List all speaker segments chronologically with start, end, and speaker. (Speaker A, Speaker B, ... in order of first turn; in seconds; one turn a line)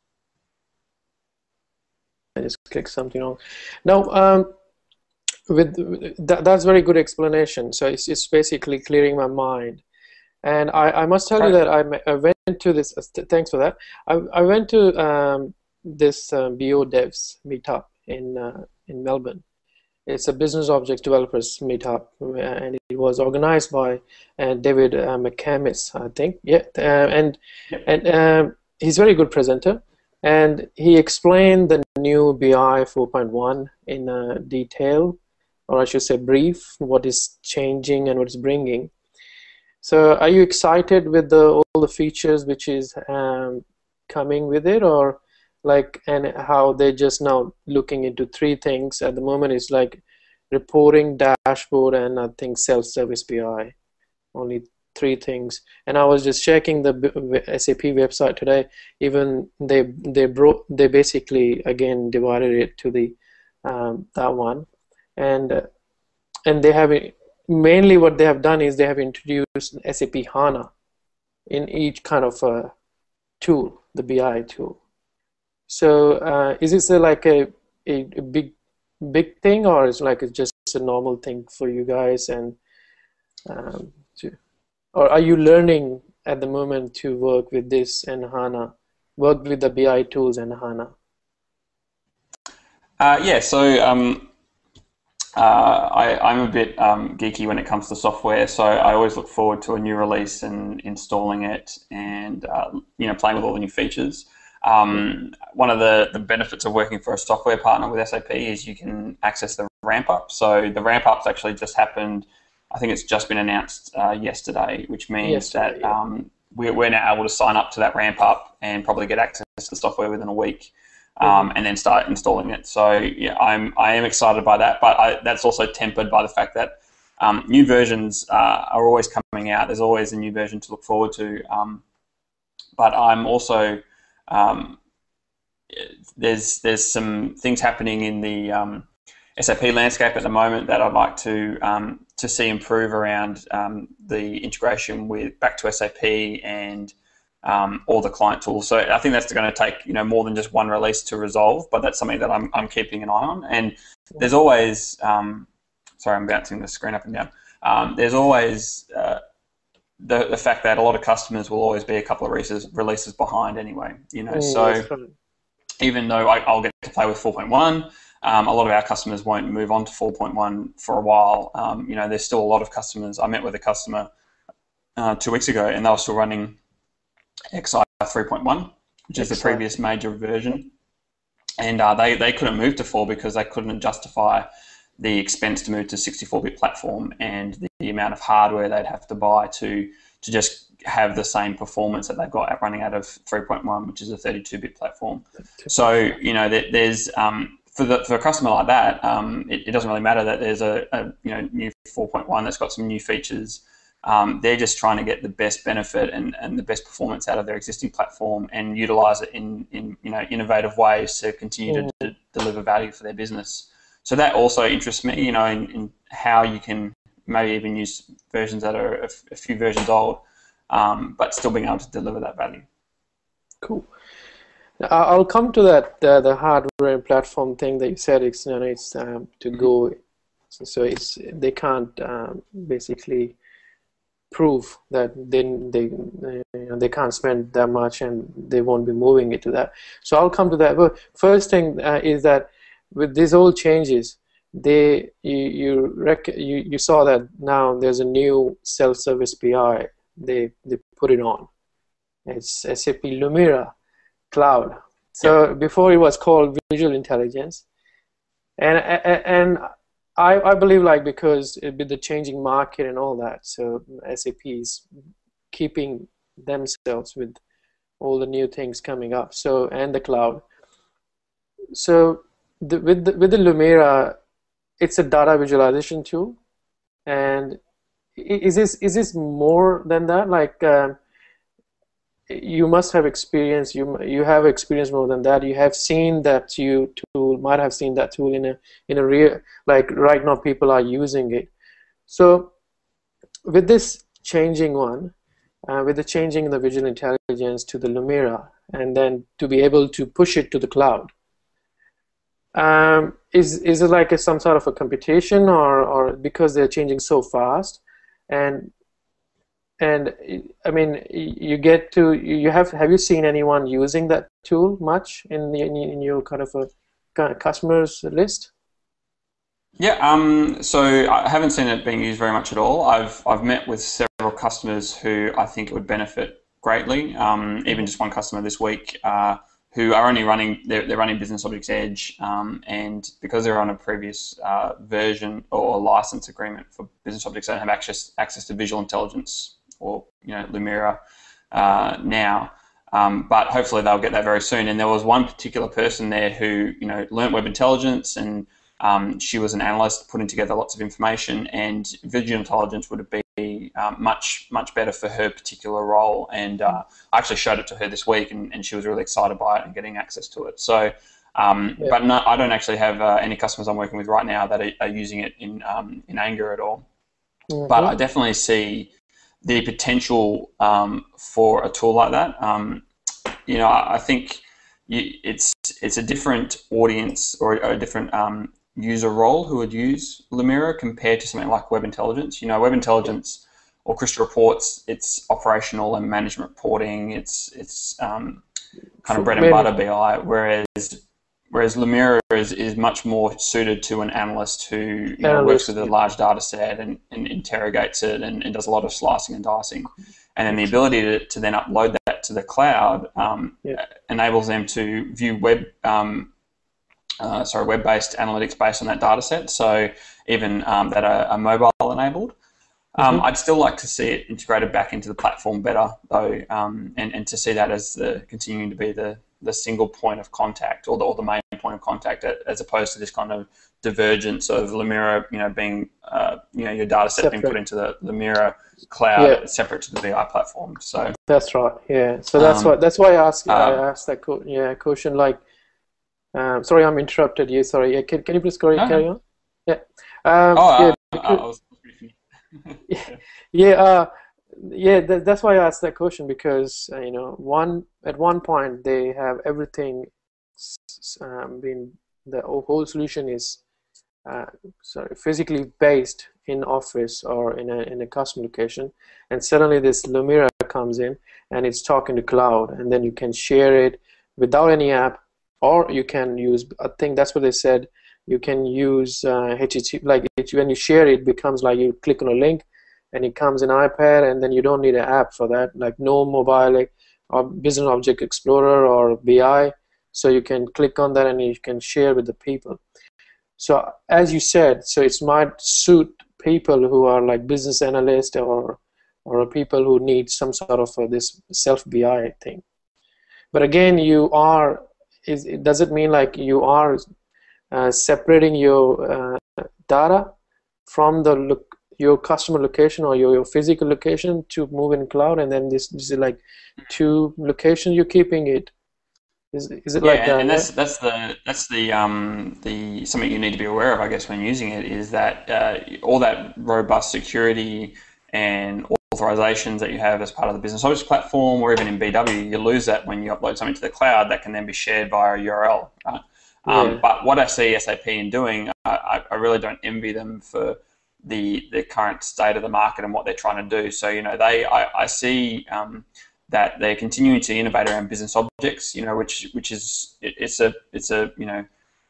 Speaker A: 2.4-4.5
Speaker A: 5.5-9.8
Speaker A: 10.4-19.4
Speaker A: 20.1-38.9
Speaker A: 39.8-53.7
Speaker A: 54.3-65.7
Speaker A: 66.5-70.7
Speaker A: 71.5-72.7
Speaker A: 73.4-74.8
Speaker A: 75.7-82.6
Speaker A: 83.5-84.4
Speaker A: 84.9-90.9
Speaker B: 93.0-94.3
Speaker B: 95.4-131.8
Speaker A: 115.2-116.0
Speaker A: 121.2-121.5
Speaker B: 132.8-134.8
Speaker B: 135.7-155.5
Speaker B: 156.0-159.2
Speaker B: 160.0-164.9
Speaker A: 164.3-165.1
Speaker B: 165.8-174.1
Speaker B: 175.0-176.6
Speaker B: 177.5-180.7
Speaker A: 179.2-179.6
Speaker B: 181.6-184.5
Speaker B: 185.0-222.7
Speaker A: 223.6-223.9
Speaker A: 224.8-230.0
Speaker A: 230.5-233.4
Speaker A: 234.3-251.5
Speaker A: 252.3-253.7
Speaker A: 254.3-257.6
Speaker A: 258.6-259.6
Speaker A: 260.2-264.9
Speaker A: 265.5-267.4
Speaker A: 268.0-270.4
Speaker A: 271.7-274.2
Speaker A: 274.8-276.4
Speaker A: 277.1-277.6
Speaker A: 278.2-281.0
Speaker A: 282.3-291.5
Speaker A: 292.1-292.5
Speaker A: 293.5-295.1
Speaker A: 295.7-301.1
Speaker A: 302.6-308.7
Speaker A: 309.8-318.5
Speaker B: 319.8-341.0
Speaker B: 341.5-366.9
Speaker A: 367.5-367.9
Speaker B: 367.7-368.9
Speaker B: 369.4-372.8
Speaker B: 373.5-388.4
Speaker B: 389.1-391.0
Speaker A: 389.1-389.7
Speaker B: 391.5-406.3
Speaker A: 395.2-395.9
Speaker B: 407.2-412.3
Speaker B: 412.9-431.1
Speaker A: 413.0-413.2
Speaker A: 427.2-427.6
Speaker A: 429.2-429.4
Speaker A: 431.3-435.4
Speaker B: 432.4-432.8
Speaker B: 433.5-433.8
Speaker A: 436.3-441.4
Speaker B: 438.8-439.1
Speaker B: 440.5-442.8
Speaker A: 442.9-453.6
Speaker A: 454.2-482.8
Speaker A: 483.6-492.6
Speaker A: 493.5-497.0
Speaker A: 497.7-500.3
Speaker A: 500.9-508.7
Speaker A: 509.5-510.7
Speaker B: 510.0-541.7
Speaker A: 526.7-527.0